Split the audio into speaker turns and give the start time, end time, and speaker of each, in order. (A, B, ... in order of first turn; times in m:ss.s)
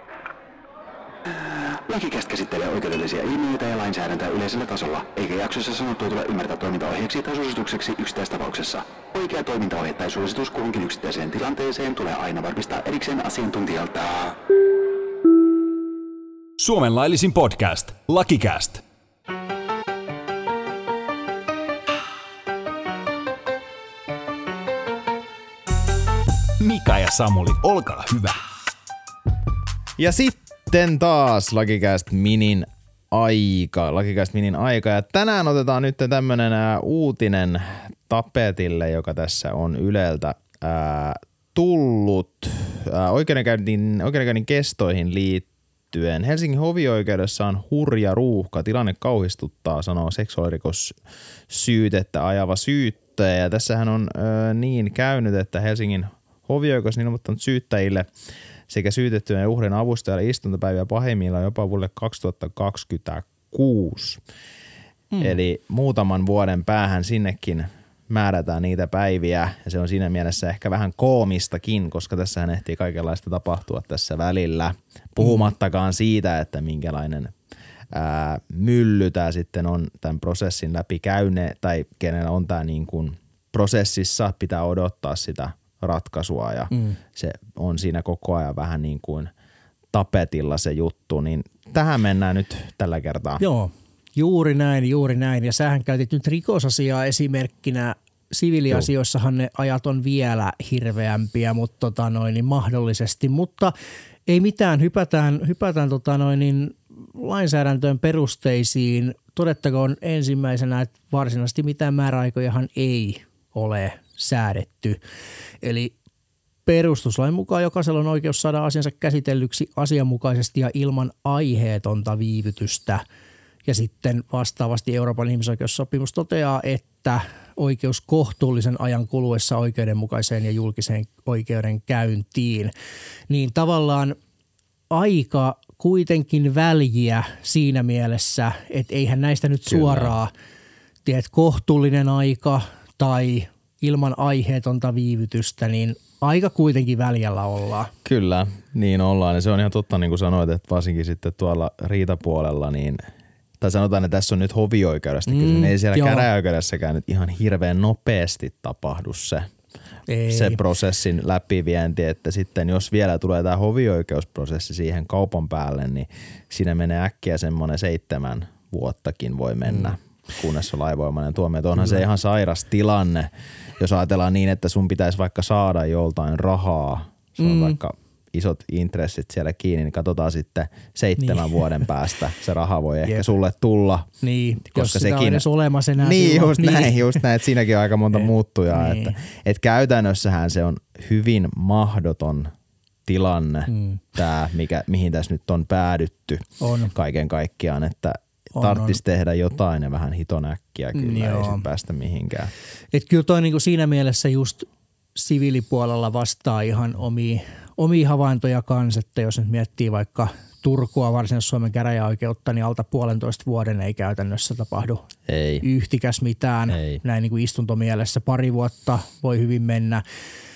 0:01.6-0:14.4 A
0:16.6-0:18.8 B
0:26.6-0:28.4 B
0:30.0-0:51.0 C
0:51.5-0:58.1 C
0:58.7-1:04.2 C
1:05.2-1:17.3 C
1:17.9-1:29.3 C
1:26.7-1:27.0 D
1:29.9-1:33.4 C
1:33.4-1:43.7 D
1:44.3-1:55.0 D
1:55.6-1:55.9 D
1:56.6-2:03.0 D
2:03.6-2:12.7 D
2:13.3-2:14.2 D
2:14.9-2:20.3 D
2:19.7-2:20.2 C
2:21.0-2:27.9 D
2:28.0-2:33.0 C
2:33.6-2:39.5 C
2:35.3-2:36.3 D
2:40.1-2:40.6 D
2:40.3-3:04.1 C
2:51.8-2:52.0 D
2:57.4-2:57.8 D
3:01.2-3:01.9 D
3:03.0-3:03.3 D
3:04.2-3:07.2 D
3:04.6-3:05.4 C
3:06.0-3:12.5 C
3:08.1-3:09.2 D
3:13.1-3:22.5 C
3:13.7-3:14.0 D
3:16.6-3:16.9 D
3:18.5-3:19.0 D
3:20.9-3:21.6 D
3:22.9-3:35.0 D
3:35.3-3:35.6 C
3:35.6-3:40.0 D
3:36.7-3:37.0 C